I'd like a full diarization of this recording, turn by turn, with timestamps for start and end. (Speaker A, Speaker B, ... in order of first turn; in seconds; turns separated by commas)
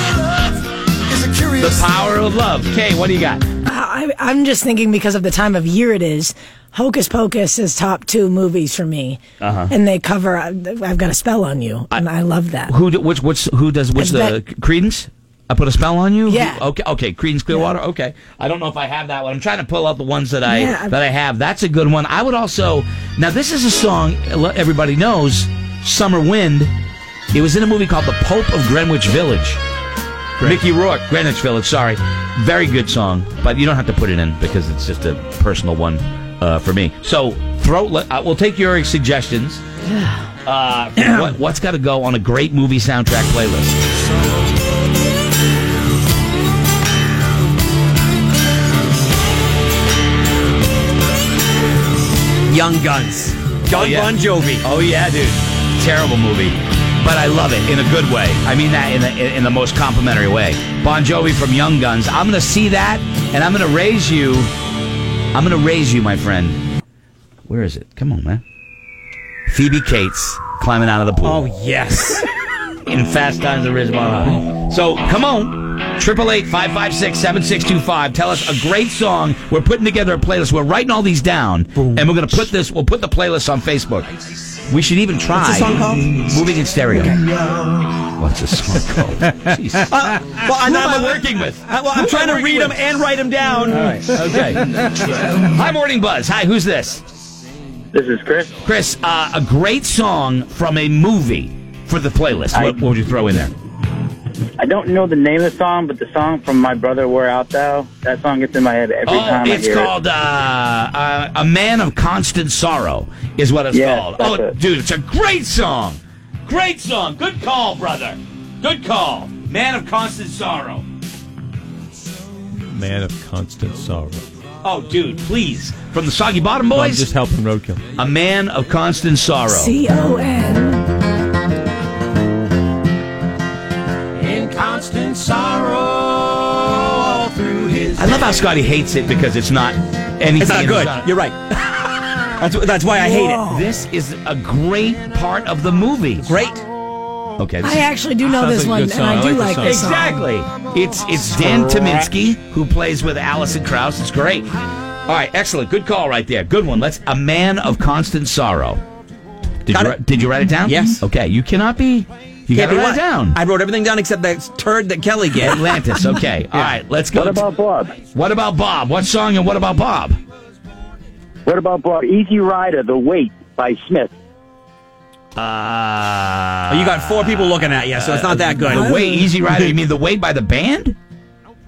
Speaker A: 1.1-1.9, Speaker B: 1.6-3.4, Speaker C: 3.6-12.7, Speaker B: 9.4-9.7, Speaker B: 12.7-26.7, Speaker C: 13.9-14.3, Speaker C: 16.3-16.6, Speaker C: 20.4-20.9, Speaker B: 27.3-29.6, Speaker B: 30.4-39.6, Speaker B: 40.4-43.8, Speaker A: 52.5-54.6, Speaker B: 53.7-64.5, Speaker B: 65.3-66.6, Speaker B: 67.5-68.4, Speaker B: 69.5-71.4, Speaker A: 71.2-72.2, Speaker B: 72.8-84.1, Speaker A: 81.8-82.4, Speaker B: 84.7-87.2, Speaker A: 85.3-86.4, Speaker A: 86.9-87.9, Speaker B: 88.0-89.9, Speaker A: 89.9-94.2, Speaker B: 90.5-92.8, Speaker B: 93.7-97.0, Speaker D: 97.9-98.5, Speaker B: 98.6-103.5, Speaker D: 104.6-109.9, Speaker B: 109.0-120.8, Speaker D: 113.7-114.5, Speaker E: 122.7-124.2, Speaker B: 124.6-127.1, Speaker E: 126.7-127.8, Speaker B: 128.0-129.7, Speaker C: 129.5-130.9, Speaker E: 134.2-136.0, Speaker E: 137.1-137.9, Speaker B: 137.9-141.1, Speaker A: 140.4-141.9, Speaker A: 142.4-143.5, Speaker C: 143.0-143.7, Speaker B: 143.4-146.3, Speaker A: 146.2-146.6, Speaker B: 147.4-147.8, Speaker C: 147.6-150.2, Speaker E: 148.2-149.7, Speaker B: 149.6-154.5, Speaker B: 155.1-158.8, Speaker B: 159.7-163.4, Speaker A: 159.7-160.0, Speaker A: 160.6-161.0, Speaker A: 162.5-165.9, Speaker B: 165.4-167.5, Speaker D: 167.1-167.9, Speaker B: 168.0-170.2, Speaker D: 171.4-174.1, Speaker B: 175.3-180.9, Speaker A: 176.7-179.7